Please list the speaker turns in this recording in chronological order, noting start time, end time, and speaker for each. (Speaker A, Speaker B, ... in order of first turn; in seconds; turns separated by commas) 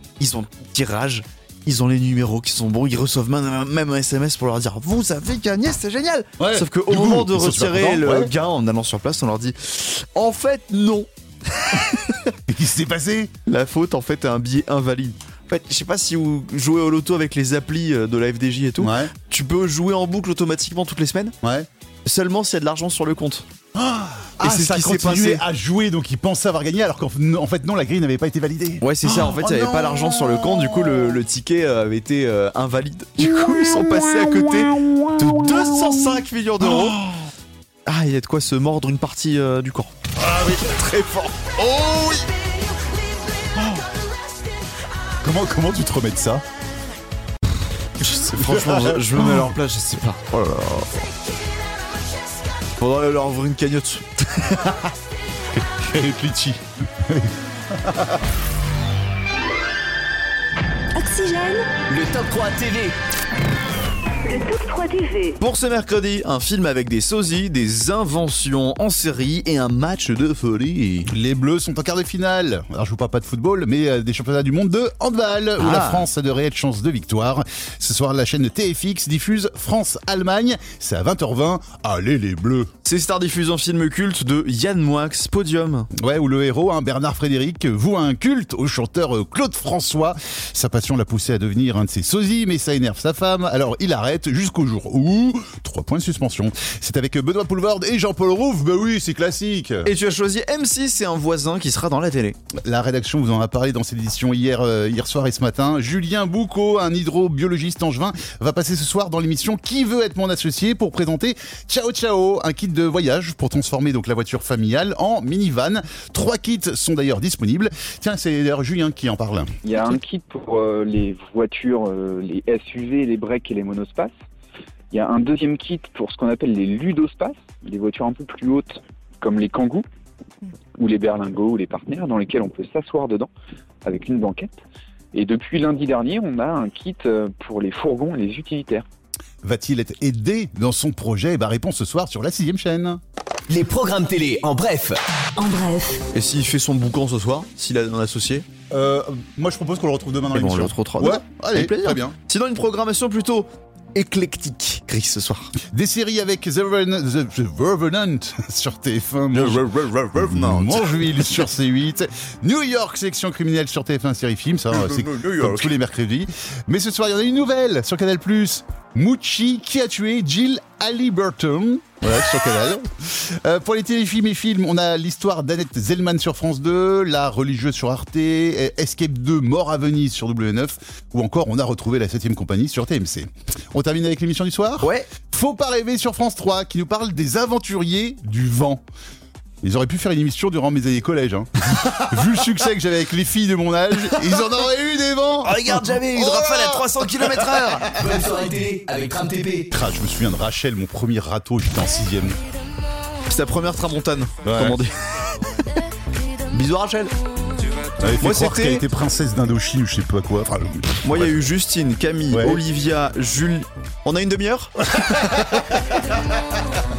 Speaker A: 0.2-12.3, Speaker B: 6.4-8.3, Speaker B: 12.5-13.3, Speaker A: 13.5-21.4, Speaker B: 18.8-19.1, Speaker B: 21.4-21.7, Speaker A: 22.1-23.5, Speaker B: 23.8-30.9, Speaker A: 24.4-25.4, Speaker A: 28.8-37.0, Speaker B: 36.6-37.2, Speaker A: 37.9-41.5, Speaker B: 40.2-40.8, Speaker B: 41.5-42.3, Speaker B: 43.6-43.9, Speaker B: 45.2-46.5, Speaker A: 48.0-51.1, Speaker B: 48.1-49.5, Speaker A: 52.8-54.8, Speaker B: 55.5-58.2, Speaker C: 61.0-61.7, Speaker D: 61.9-63.0, Speaker C: 64.3-65.3, Speaker A: 65.4-71.1, Speaker B: 71.1-82.7, Speaker A: 75.6-76.0, Speaker A: 82.8-85.9, Speaker B: 85.9-99.9, Speaker A: 99.8-102.4, Speaker B: 102.5-119.6, Speaker E: 119.6-124.1, Speaker E: 124.9-129.9, Speaker E: 130.8-133.3, Speaker E: 133.8-134.5, Speaker E: 135.1-138.8, Speaker B: 139.4-143.0, Speaker D: 143.5-145.0, Speaker C: 145.4-146.0, Speaker A: 146.1-148.5, Speaker B: 148.7-152.2, Speaker A: 150.3-155.5, Speaker B: 155.7-188.8, Speaker A: 159.3-161.0, Speaker A: 164.7-165.7, Speaker A: 184.8-185.1, Speaker B: 189.6-197.7, Speaker A: 195.4-198.0, Speaker D: 197.9-199.7, Speaker B: 199.7-202.4, Speaker A: 203.3-204.9, Speaker B: 204.4-204.8, Speaker A: 206.5-207.1, Speaker B: 208.0-211.4, Speaker A: 208.2-208.8, Speaker A: 211.0-215.7, Speaker B: 212.3-212.6